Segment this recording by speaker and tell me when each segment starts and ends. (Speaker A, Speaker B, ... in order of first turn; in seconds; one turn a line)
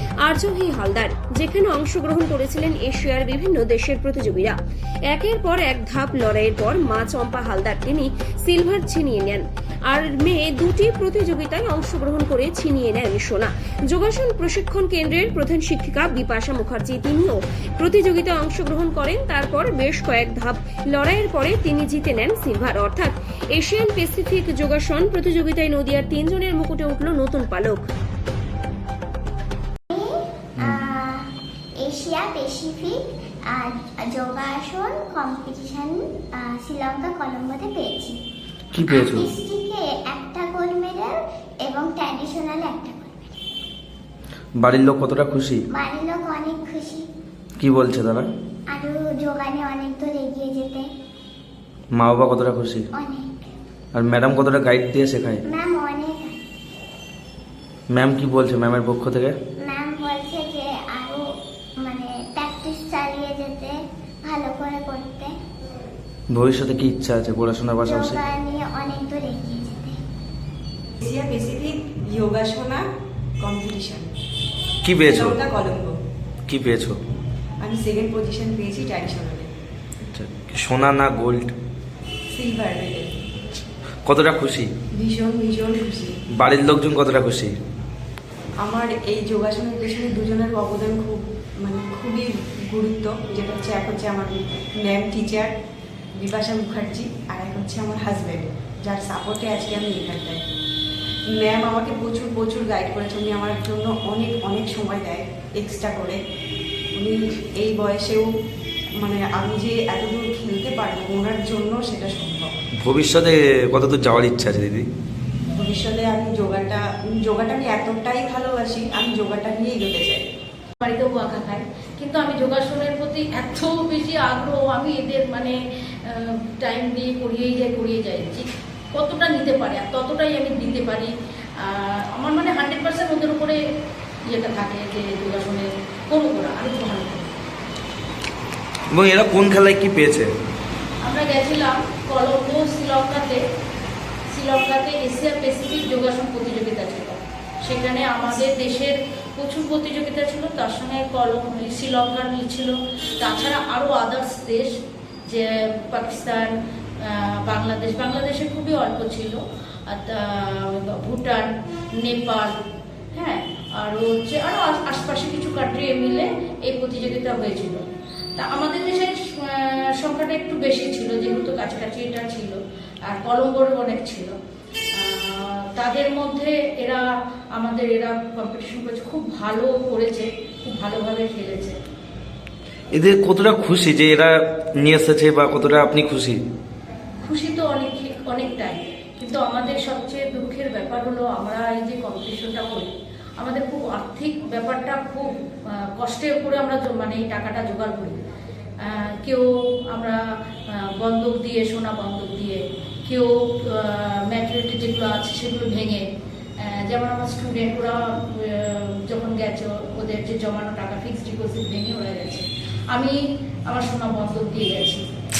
Speaker A: 0.2-4.6
Speaker A: 5.1-27.9
Speaker B: 29.9-38.2
Speaker C: 38.7-39.3
Speaker B: 38.8-43.3
Speaker C: 44.6-45.6
Speaker B: 45.7-47.1
Speaker C: 47.6-48.3
Speaker B: 48.7-50.9
Speaker C: 51.9-52.9
Speaker B: 52.9-53.5
Speaker C: 53.9-55.4
Speaker B: 55.5-56.4
Speaker C: 57.9-59.3
Speaker B: 59.6-61.2
Speaker B: 61.8-65.3
Speaker C: 66.3-68.2
Speaker B: 67.8-70.0
Speaker D: 71.0-72.8
Speaker D: 73.4-74.1
Speaker C: 74.8-75.4
Speaker D: 75.0-76.0
Speaker C: 76.5-77.0
Speaker D: 77.6-79.5
Speaker C: 80.1-81.5
Speaker D: 82.3-83.1
Speaker C: 84.0-84.7
Speaker D: 85.0-86.2
Speaker C: 86.3-87.5
Speaker D: 88.6-95.5
Speaker D: 96.2-100.4
Speaker D: 101.3-106.2
Speaker D: 107.0-108.3
Speaker D: 109.0-112.5
Speaker C: 112.8-114.9
Speaker D: 115.5-120.3
Speaker E: 120.8-133.6
Speaker E: 134.3-137.3
Speaker C: 138.9-140.3
Speaker E: 141.0-143.4
Speaker E: 144.3-154.7
Speaker E: 155.3-161.5
Speaker E: 162.0-162.6
Speaker E: 163.1-167.8
Speaker E: 168.4-174.3
Speaker E: 174.9-177.0
Speaker E: 177.6-181.8
Speaker C: 182.9-186.4
Speaker E: 187.2-198.2
Speaker E: 198.8-206.1
Speaker E: 206.6-213.2
Speaker E: 213.7-215.0